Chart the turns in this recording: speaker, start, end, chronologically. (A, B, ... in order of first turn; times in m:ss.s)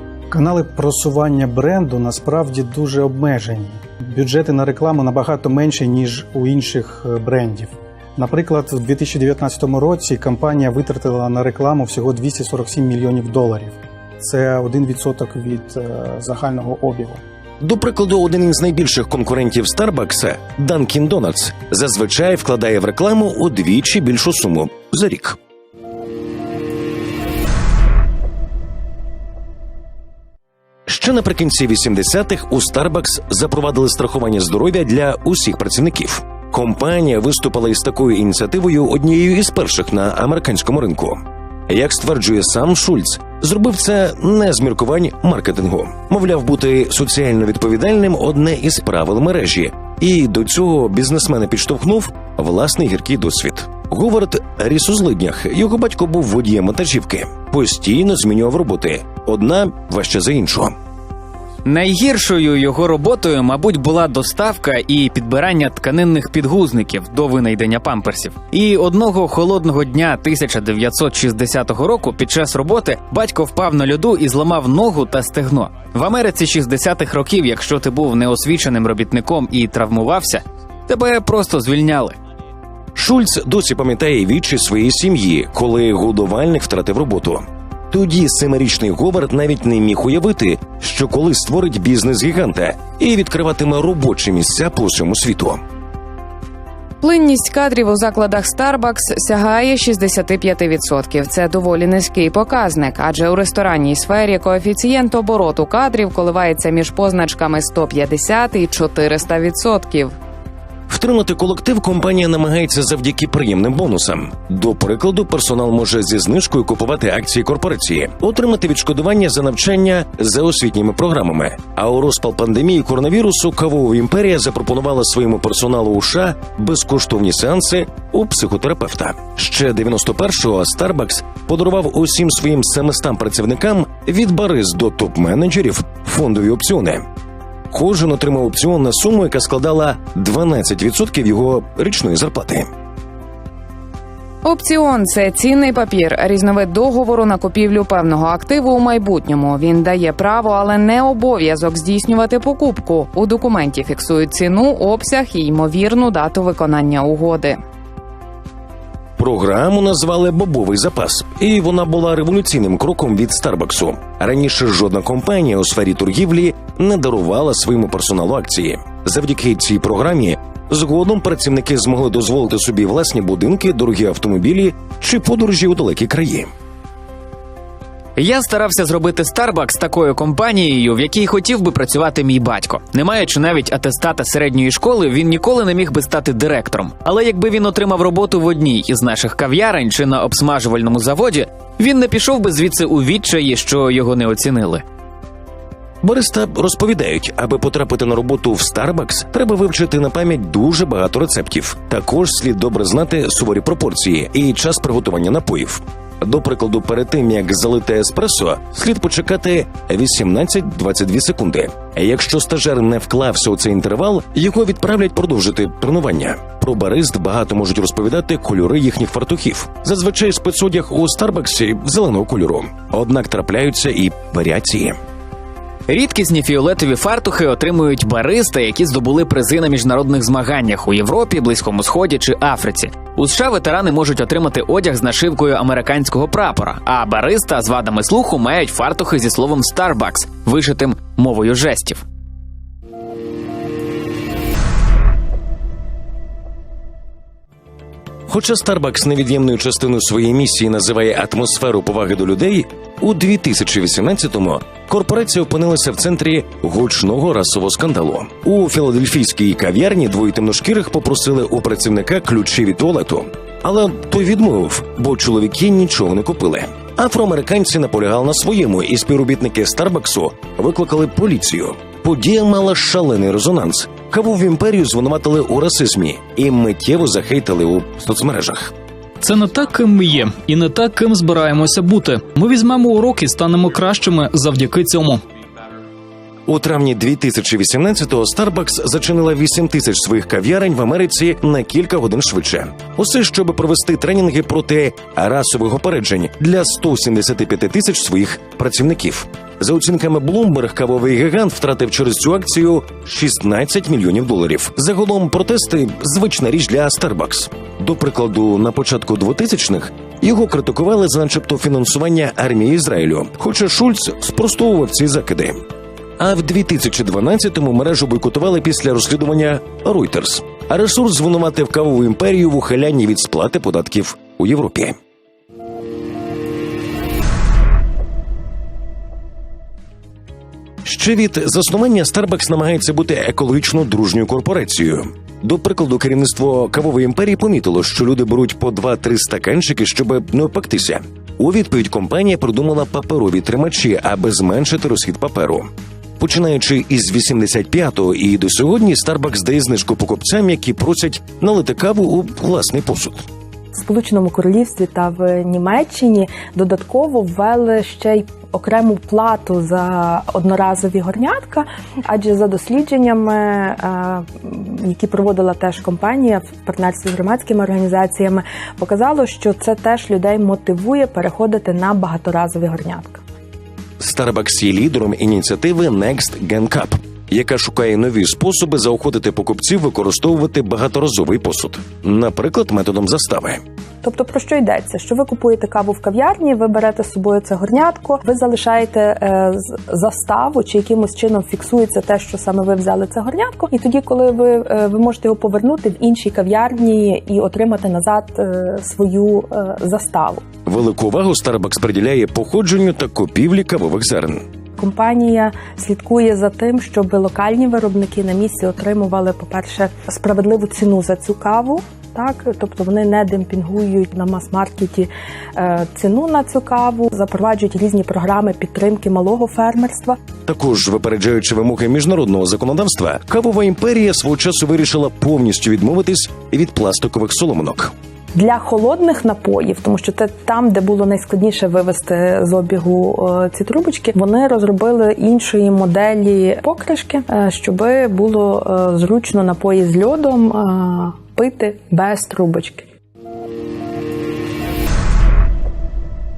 0:00.3-0:17.2 A
0:17.6-0:25.4 B
0:30.9-1:00.8 B
1:01.6-1:22.2 C
1:22.9-1:35.6 B
1:37.0-1:50.1 D
1:50.9-2:17.1 B
2:17.7-2:22.7 B
2:24.4-2:37.6 D
2:39.2-2:56.5 B
2:58.2-3:14.8 C
3:16.0-3:45.0 B
3:45.9-4:02.0 C
4:08.3-4:38.7 B
4:39.3-4:41.9 E
4:42.5-4:45.2 E
4:46.4-5:15.6 B
5:16.2-5:25.0 B
5:30.8-5:53.2 B
5:53.7-6:13.2 F
6:14.0-6:23.6 B
6:24.0-6:40.4 F
6:40.6-6:44.4 B
6:44.8-7:00.2 F
7:00.4-7:07.9 B
7:08.3-7:22.9 F